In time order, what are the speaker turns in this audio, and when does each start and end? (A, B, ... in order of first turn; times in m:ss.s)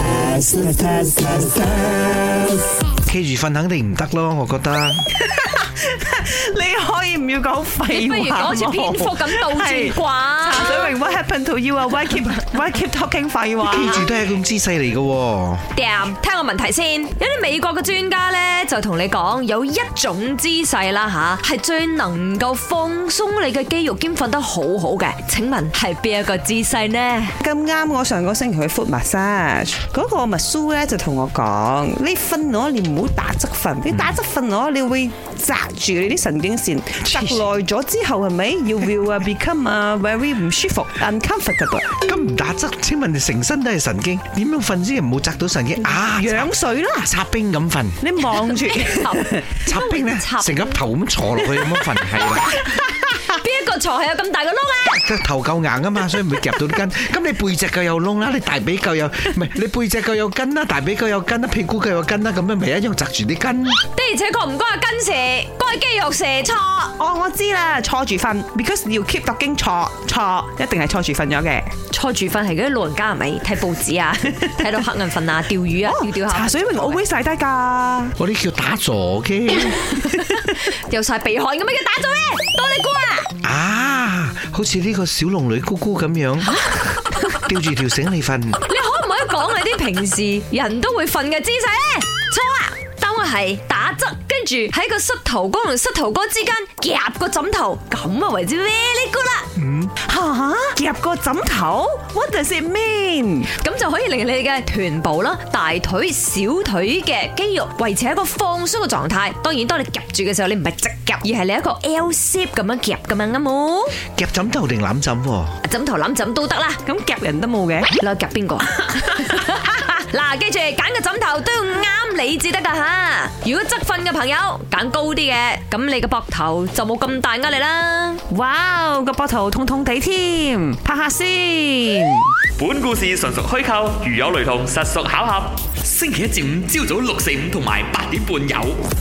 0:00.2-0:01.4 A
0:03.0-0:05.0 B
0:05.2-0:14.1 A
0:07.9-0:11.0 C
0:13.6-0:15.6 B
0:15.7-0:27.4 C
0:27.4-0:42.0 A
0:33.9-0:34.2 B
0:42.0-0:46.5 B
0:45.9-0:47.1 A
0:47.0-0:48.0 B
0:48.0-0:49.4 A
0:48.3-0:50.8 C
0:49.6-0:52.6 B
0:53.1-0:55.0 C
0:55.0-1:03.8 B
1:03.9-1:07.0 C
1:07.0-1:11.7 A
1:11.9-1:17.0 C
1:15.8-1:18.1 A
1:18.2-1:19.9 B
1:20.0-1:23.3 C
1:23.4-1:26.6 B
1:27.3-1:28.6 B
1:28.6-1:39.5 C
1:39.6-1:39.9 B
1:40.0-1:43.5 A
1:43.5-1:54.0 C
1:54.2-1:55.6 B
1:55.6-1:56.8 C
1:56.8-1:57.9 A
1:58.0-2:08.2 C
2:08.3-2:12.4 A
2:12.6-2:18.8 D